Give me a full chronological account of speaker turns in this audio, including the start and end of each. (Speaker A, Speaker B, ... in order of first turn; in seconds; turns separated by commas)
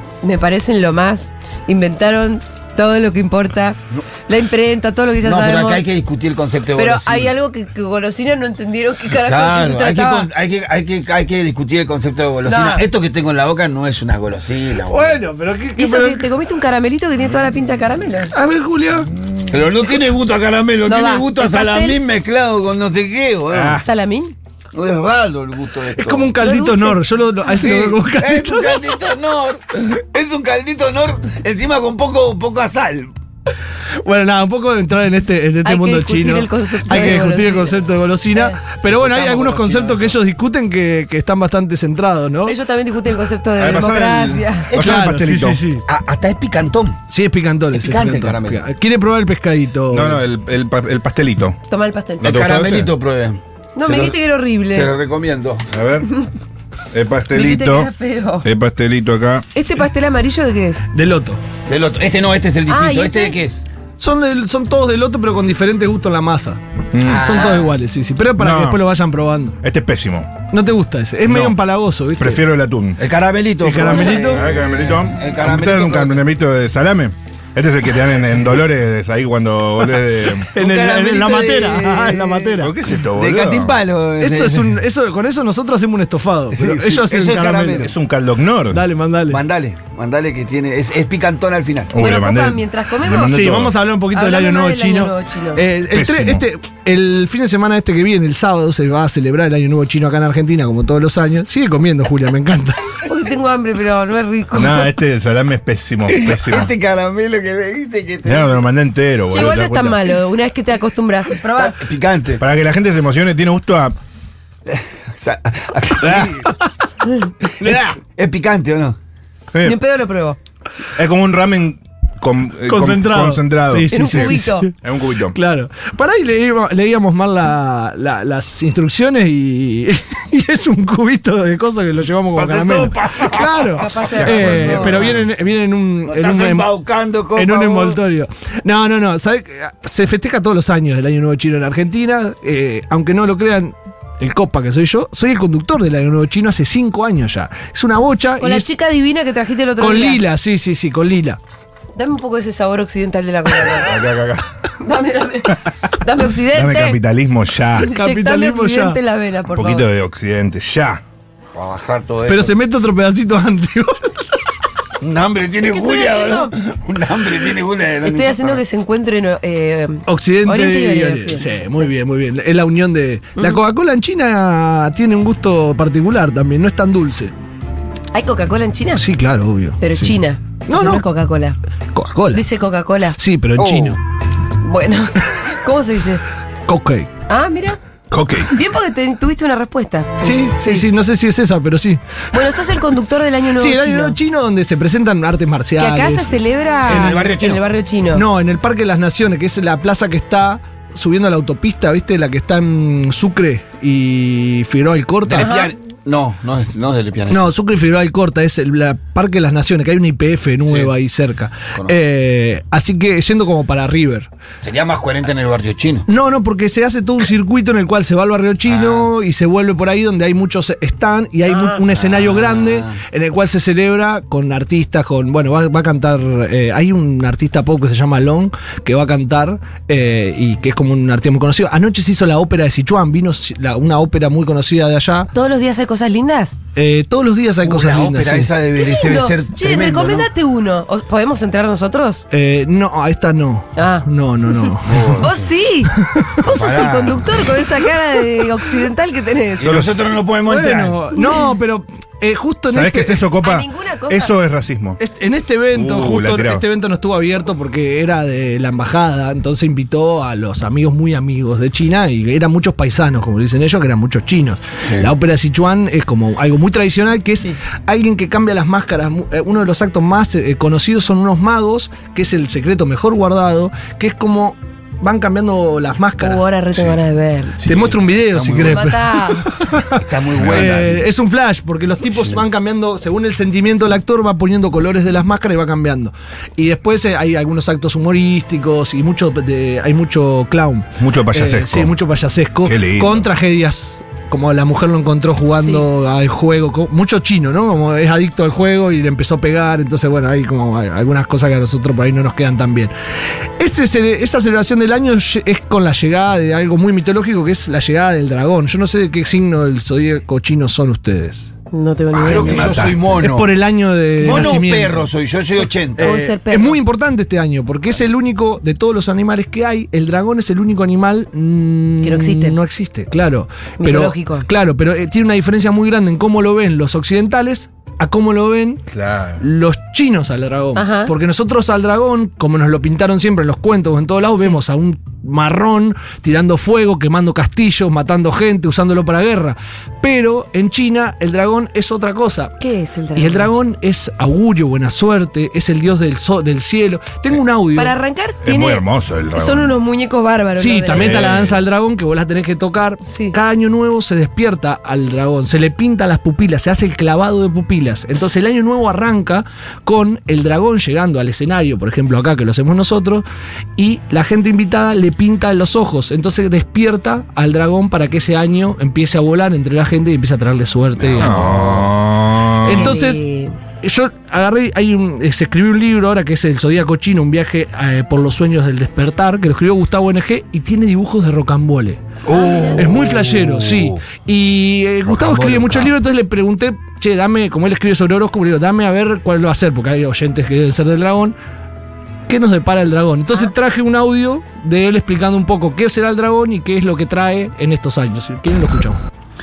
Speaker A: 0.2-5.8, Speaker B: 5.2-7.3, Speaker A: 6.7-10.3, Speaker B: 9.1-15.2, Speaker A: 12.4-12.9, Speaker C: 14.8-16.3, Speaker A: 15.8-18.3, Speaker C: 18.3-19.1, Speaker B: 19.5-23.8, Speaker A: 20.8-22.0, Speaker D: 23.5-23.8, Speaker A: 23.8-24.3, Speaker B: 24.7-26.4, Speaker C: 25.9-28.9, Speaker A: 26.4-27.0, Speaker B: 27.5-33.1, Speaker C: 34.0-42.5, Speaker A: 35.6-37.8, Speaker A: 38.3-38.6, Speaker B: 38.8-40.2, Speaker A: 42.4-44.7, Speaker D: 43.5-45.6, Speaker C: 44.8-45.8, Speaker B: 45.9-47.0, Speaker C: 47.1-50.2, Speaker B: 47.7-48.6, Speaker D: 49.9-51.6, Speaker A: 51.7-52.3, Speaker B: 52.2-55.6, Speaker D: 52.2-52.9, Speaker A: 53.8-54.9, Speaker D: 55.7-56.1, Speaker D: 56.9-59.5, Speaker A: 57.3-58.5, Speaker A: 59.5-60.8, Speaker C: 60.9-61.4, Speaker B: 61.7-63.6, Speaker A: 62.7-63.4, Speaker C: 64.0-66.6, Speaker D: 66.9-67.4, Speaker B: 67.0-67.8, Speaker C: 67.2-69.6, Speaker D: 68.4-68.8, Speaker D: 69.6-70.3, Speaker C: 70.5-72.4, Speaker D: 71.2-71.6, Speaker D: 72.2-73.0, Speaker B: 73.0-76.2, Speaker C: 73.6-74.4, Speaker D: 74.3-80.5, Speaker B: 80.5-82.6, Speaker C: 80.5-82.7, Speaker D: 82.6-83.8, Speaker B: 83.1-84.8, Speaker C: 84.2-87.9, Speaker B: 86.5-87.9, Speaker D: 87.7-88.8, Speaker C: 88.7-89.4, Speaker B: 89.3-91.9, Speaker D: 91.9-93.7, Speaker A: 92.0-93.4, Speaker C: 93.3-103.0, Speaker A: 94.1-95.7, Speaker D: 95.9-96.4, Speaker A: 103.0-104.9, Speaker D: 104.5-106.7, Speaker B: 106.1-108.7, Speaker D: 108.2-110.1, Speaker A: 109.3-111.8, Speaker B: 111.5-112.4, Speaker D: 112.4-114.0, Speaker B: 114.7-116.5, Speaker D: 116.0-116.5, Speaker B: 117.4-119.0, Speaker D: 117.6-118.0, Speaker D: 119.5-119.8, Speaker A: 119.6-120.4, Speaker D: 121.0-125.3, Speaker C: 122.7-124.7, Speaker A: 123.9-124.7, Speaker C: 125.3-136.7, Speaker B: 132.3-135.2, Speaker A: 133.7-135.0, Speaker D: 134.2-135.2, Speaker B: 136.1-138.0, Speaker C: 137.3-148.7, Speaker A: 148.4-150.2, Speaker C: 149.8-151.4, Speaker A: 151.9-154.0, Speaker D: 153.8-154.4, Speaker A: 154.8-157.0, Speaker D: 156.5-157.9, Speaker A: 157.8-159.9, Speaker C: 157.8-159.0, Speaker D: 159.5-161.0, Speaker B: 161.5-162.6, Speaker C: 162.3-164.2, Speaker B: 165.0-168.6, Speaker A: 165.6-166.5, Speaker A: 168.0-171.5, Speaker C: 170.1-177.3, Speaker A: 178.1-179.0, Speaker C: 178.9-181.1, Speaker A: 179.8-181.6, Speaker C: 181.9-182.4, Speaker A: 182.3-183.2, Speaker C: 183.2-184.0, Speaker B: 183.6-184.0, Speaker A: 184.6-186.2, Speaker C: 186.7-187.1, Speaker A: 187.3-187.8, Speaker D: 188.1-188.5, Speaker A: 188.5-190.8, Speaker C: 190.2-192.0, Speaker A: 192.3-194.2, Speaker C: 193.5-197.3, Speaker A: 195.8-198.2, Speaker B: 196.8-197.7, Speaker C: 198.1-205.5, Speaker B: 205.2-207.5, Speaker A: 205.4-205.7, Speaker C: 207.3-214.3, Speaker B: 210.7-210.9, Speaker B: 214.6-216.0, Speaker C: 216.1-235.3, Speaker B: 218.6-219.1, Speaker A: 221.4-221.8, Speaker B: 221.9-223.0, Speaker A: 235.3-236.6, Speaker C: 236.7-238.5, Speaker B: 237.6-240.3, Speaker A: 238.7-242.2, Speaker C: 242.3-245.1, Speaker A: 243.8-249.7, Speaker B: 244.8-245.5, Speaker C: 246.1-246.3, Speaker B: 246.4-247.6, Speaker B: 249.6-251.2, Speaker D: 249.6-250.0, Speaker C: 250.4-253.3, Speaker A: 251.2-251.4, Speaker D: 252.7-255.0, Speaker A: 253.4-254.4, Speaker C: 255.0-276.5, Speaker D: 255.7-256.6, Speaker B: 264.8-265.1, Speaker A: 276.2-277.6, Speaker B: 277.6-278.9, Speaker C: 277.6-302.9, Speaker A: 278.6-279.8, Speaker B: 279.9-281.0, Speaker D: 280.4-280.9, Speaker D: 291.0-291.9, Speaker D: 292.6-293.3, Speaker A: 295.5-295.8, Speaker C: 303.6-311.5, Speaker A: 311.7-312.8, Speaker B: 312.1-313.5, Speaker D: 312.1-313.0, Speaker C: 313.2-315.1, Speaker B: 314.2-316.2, Speaker A: 314.2-314.5, Speaker C: 315.9-328.8, Speaker A: 316.0-316.8, Speaker A: 322.0-322.6, Speaker A: 323.8-324.4, Speaker D: 328.9-329.4, Speaker C: 329.4-342.6, Speaker A: 330.8-331.1, Speaker A: 342.6-343.6, Speaker C: 343.1-347.9, Speaker A: 347.7-351.4, Speaker D: 348.4-349.7, Speaker C: 350.6-363.2, Speaker D: 350.9-351.6, Speaker A: 353.1-353.3, Speaker C: 363.8-371.4, Speaker B: 371.0-371.9, Speaker D: 371.2-372.9, Speaker C: 372.6-373.2, Speaker A: 372.7-373.6, Speaker C: 373.8-382.0, Speaker A: 382.2-382.9, Speaker B: 382.3-384.0, Speaker C: 382.8-391.4, Speaker B: 385.0-385.9, Speaker C: 392.3-399.0